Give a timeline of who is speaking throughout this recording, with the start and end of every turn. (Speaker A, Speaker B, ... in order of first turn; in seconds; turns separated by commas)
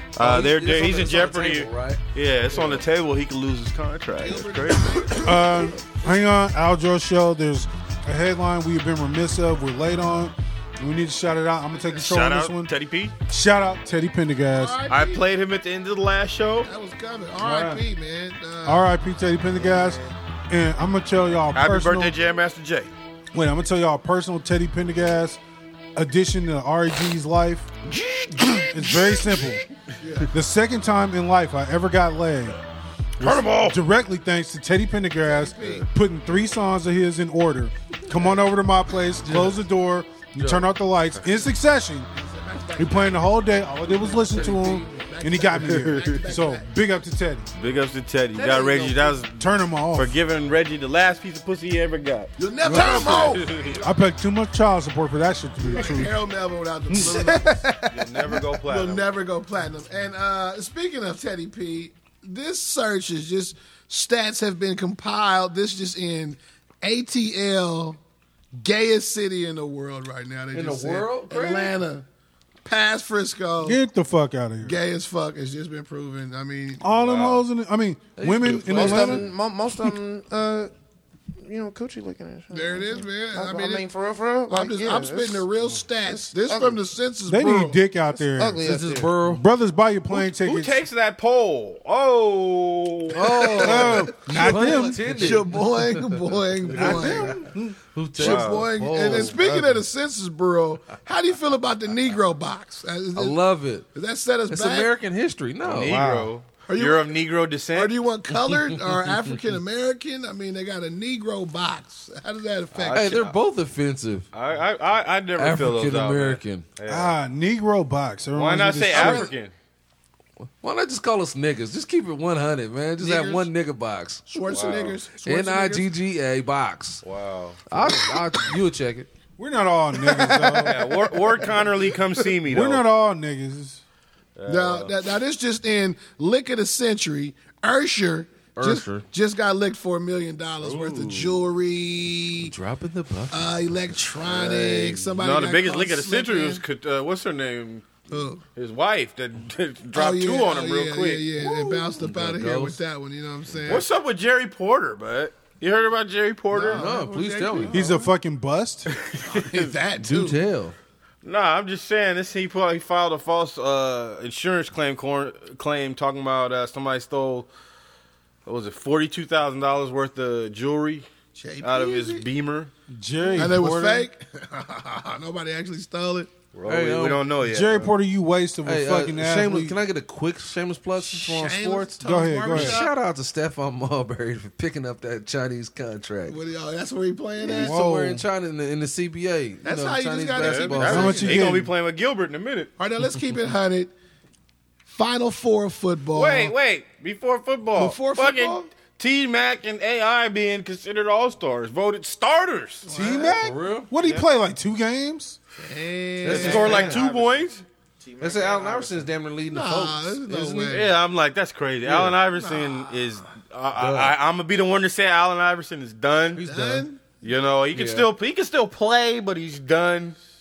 Speaker A: 0.1-5.1, Speaker B: 0.2-2.8, Speaker C: 4.2-6.1, Speaker D: 5.2-12.7, Speaker A: 11.9-13.1, Speaker D: 13.3-14.8, Speaker C: 14.5-15.3, Speaker A: 14.9-16.7, Speaker C: 16.6-18.9, Speaker D: 17.4-17.8, Speaker D: 18.6-22.1, Speaker E: 19.6-20.0, Speaker A: 21.5-22.9, Speaker D: 23.3-25.4, Speaker D: 25.9-27.7, Speaker E: 27.9-28.6, Speaker D: 28.5-29.6, Speaker C: 30.0-30.3, Speaker D: 30.3-32.6, Speaker A: 33.2-33.8, Speaker D: 33.2-42.1, Speaker C: 35.2-35.9, Speaker B: 39.2-39.6, Speaker B: 40.4-40.7, Speaker C: 42.1-46.7, Speaker D: 42.8-47.5, Speaker A: 47.5-53.8, Speaker E: 48.4-48.9, Speaker D: 49.3-50.1, Speaker C: 52.4-53.9, Speaker D: 52.6-56.2, Speaker C: 55.6-57.8, Speaker D: 56.9-57.3, Speaker E: 57.1-58.0, Speaker A: 57.9-59.1, Speaker C: 58.6-68.0, Speaker C: 68.5-72.0, Speaker B: 70.5-71.8, Speaker C: 72.6-73.8, Speaker D: 73.6-74.8, Speaker C: 74.6-76.8, Speaker D: 76.8-79.3, Speaker A: 76.9-77.4, Speaker B: 78.2-79.3, Speaker E: 78.6-80.7, Speaker E: 81.4-85.5, Speaker C: 82.5-83.9, Speaker C: 84.5-87.8, Speaker E: 86.0-86.8, Speaker D: 87.3-88.7, Speaker E: 88.1-89.2, Speaker B: 88.6-89.4, Speaker D: 89.2-90.8, Speaker A: 90.1-93.7, Speaker B: 93.1-96.0, Speaker C: 93.2-97.5, Speaker D: 93.6-95.3, Speaker B: 96.7-99.8, Speaker D: 96.8-97.8, Speaker C: 98.1-104.9, Speaker A: 98.2-98.7, Speaker B: 103.1-103.8, Speaker B: 104.5-106.2, Speaker A: 105.6-108.0, Speaker D: 105.9-106.3, Speaker C: 106.6-107.2, Speaker C: 107.7-113.3, Speaker B: 108.5-108.8, Speaker A: 112.7-113.3, Speaker B: 112.9-114.3, Speaker A: 114.3-117.1, Speaker B: 115.4-116.7, Speaker D: 116.8-119.3, Speaker A: 118.3-119.5, Speaker C: 118.9-119.3, Speaker B: 120.4-124.5, Speaker C: 123.0-123.5, Speaker C: 124.3-125.9, Speaker A: 124.5-125.0, Speaker B: 125.1-127.0, Speaker A: 127.0-127.6, Speaker B: 127.7-129.1, Speaker D: 129.4-130.9, Speaker C: 130.2-130.5, Speaker A: 130.6-132.8, Speaker C: 131.3-131.7, Speaker D: 132.5-133.8, Speaker A: 134.4-134.9, Speaker C: 134.4-142.5, Speaker B: 138.5-139.1, Speaker A: 140.6-141.4, Speaker B: 142.4-143.5, Speaker C: 143.3-146.6, Speaker A: 144.2-148.0, Speaker C: 148.1-148.4, Speaker A: 148.6-151.3, Speaker C: 149.9-153.9, Speaker B: 151.4-152.8, Speaker A: 153.7-156.9, Speaker C: 156.5-158.1, Speaker B: 156.7-157.9, Speaker D: 157.7-158.9, Speaker C: 159.2-160.4, Speaker A: 159.2-159.7, Speaker B: 160.0-160.7, Speaker A: 161.2-167.5, Speaker A: 168.4-171.1, Speaker C: 171.3-172.3, Speaker A: 171.6-172.7, Speaker D: 172.9-174.1, Speaker C: 173.2-176.3, Speaker A: 176.5-177.9, Speaker B: 176.7-177.3, Speaker D: 177.4-179.8, Speaker B: 178.6-181.9, Speaker C: 181.0-182.9, Speaker D: 182.0-182.8, Speaker B: 182.5-186.4, Speaker C: 186.2-187.8, Speaker D: 187.4-188.2, Speaker B: 187.4-191.3, Speaker C: 189.6-191.6, Speaker A: 190.4-192.7, Speaker D: 190.9-191.7, Speaker C: 192.8-193.9, Speaker C: 194.8-196.5, Speaker A: 196.1-202.9, Speaker C: 197.7-198.7, Speaker C: 202.8-203.5, Speaker D: 202.9-205.4, Speaker B: 203.4-203.9, Speaker C: 205.6-207.0, Speaker B: 206.2-207.0, Speaker A: 206.3-207.6, Speaker E: 206.6-209.1, Speaker B: 208.2-210.7, Speaker C: 209.5-211.0, Speaker A: 210.6-216.4, Speaker B: 211.8-212.2, Speaker C: 212.2-213.0, Speaker B: 213.8-214.2, Speaker B: 216.3-216.8, Speaker C: 216.4-217.1, Speaker A: 217.2-220.2, Speaker B: 217.7-218.1